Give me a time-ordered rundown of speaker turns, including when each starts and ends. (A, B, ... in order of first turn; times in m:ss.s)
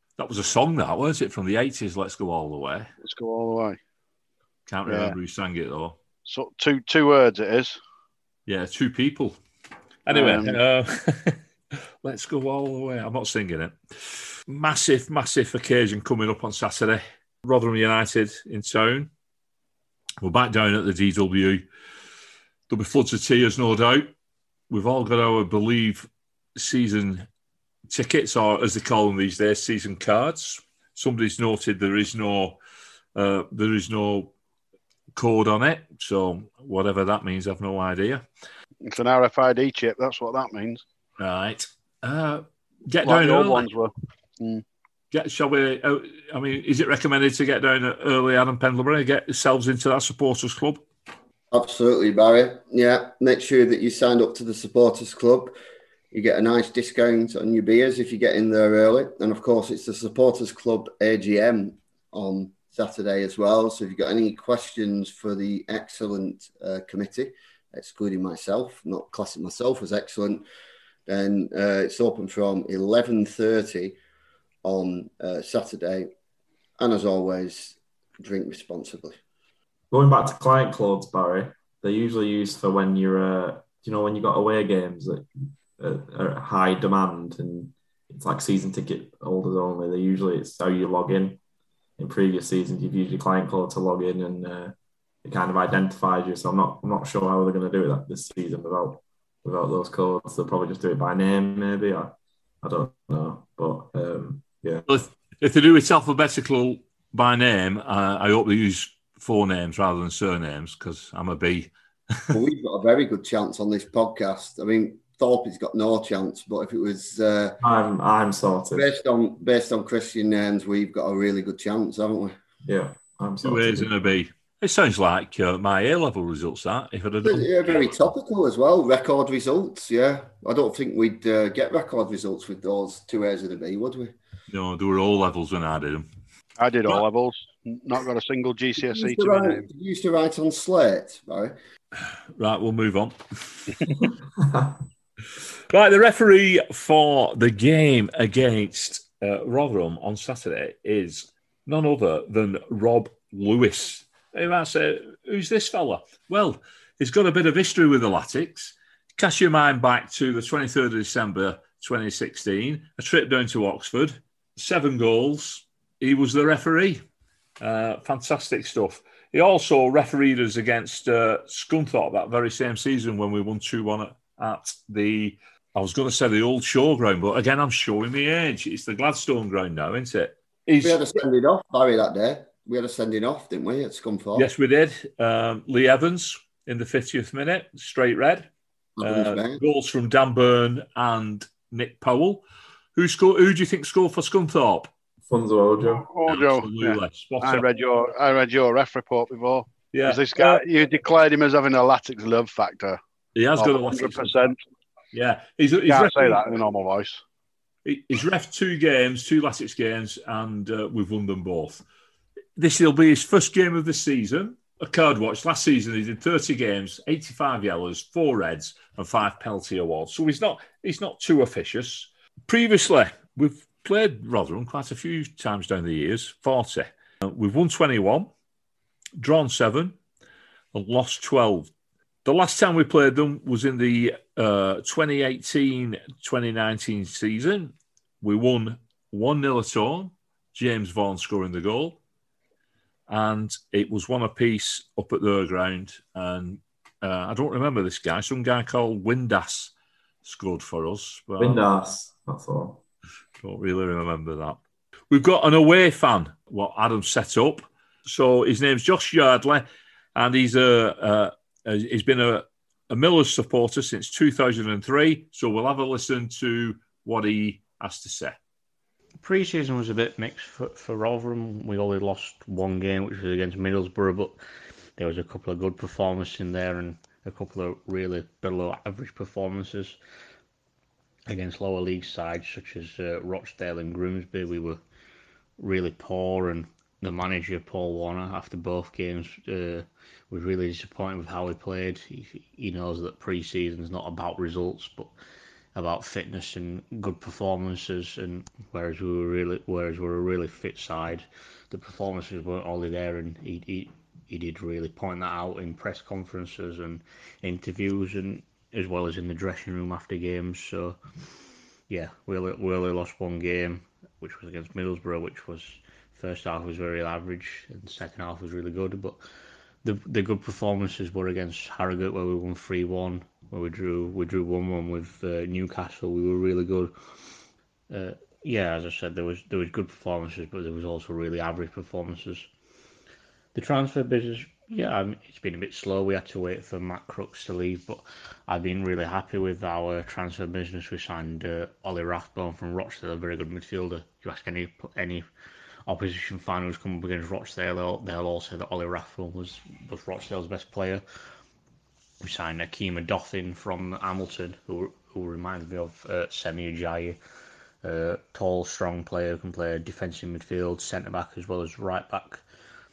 0:00.2-0:02.9 A
0:03.0-0:03.8 B
0:04.7-0:06.0 A
0:04.9-0:05.2 B
0:06.2-0:07.8 B
0:08.5-0:09.4 A
0:10.0-0:19.1 A
0:10.1-0:10.6 B
0:20.2-0:21.6 A
0:22.7-0:24.1 A
0:24.7-0:27.2 A
0:27.9-0:32.6 A
0:33.1-0:34.3 A
0:35.1-0:38.2 A
0:38.8-0:40.8 B
0:41.2-0:43.6 A
0:43.0-0:44.6 B
0:45.1-0:50.8 A
0:51.5-0:55.5 C
0:56.1-1:10.4 C
1:11.1-1:14.0 C
1:14.6-1:16.1 C
1:16.8-1:19.2 C
1:19.9-1:25.2 D
1:25.8-1:31.4 D
1:32.0-1:44.9 D
1:44.9-1:51.7 A
1:52.3-1:57.6 C
1:57.6-1:58.9 D
1:58.7-2:02.3 C
2:02.6-2:03.9 D
2:03.4-2:07.9 A
2:07.2-2:14.1 C
2:14.5-2:16.1 A
2:16.6-2:19.7 B
2:18.8-2:21.5 C
2:22.4-2:24.1 A
2:24.4-2:24.7 D
2:25.7-2:47.0 A
2:47.6-3:01.1 A
3:00.8-3:04.5 C
3:04.4-3:08.5 A
3:09.0-3:09.6 C
3:09.0-3:14.9 A
3:15.3-3:16.0 D
3:15.8-3:23.0 B
3:16.3-3:17.6 A
3:19.9-3:20.6 A
3:23.3-3:24.5 A
3:23.6-3:24.6 B
3:25.1-3:26.4 A
3:25.9-3:27.2 B
3:27.8-3:31.8 A
3:32.6-3:48.3 A
3:49.2-3:50.0 A
3:50.7-3:51.7 A
3:52.2-4:02.0 A
4:03.1-4:09.7 A
4:10.2-4:11.6 A
4:11.4-4:12.8 D
4:13.4-4:14.6 A
4:15.1-4:19.6 A
4:20.1-4:28.4 A
4:29.2-4:34.4 E
4:35.0-4:40.0 E
4:41.3-4:44.8 E
4:45.6-4:55.1 E
4:55.7-5:11.0 E
5:11.9-5:19.2 E
5:19.8-5:26.9 E
5:27.9-5:32.5 E
5:33.5-5:45.2 E
5:45.9-5:51.0 E
5:52.2-5:57.2 E
5:57.8-6:02.4 E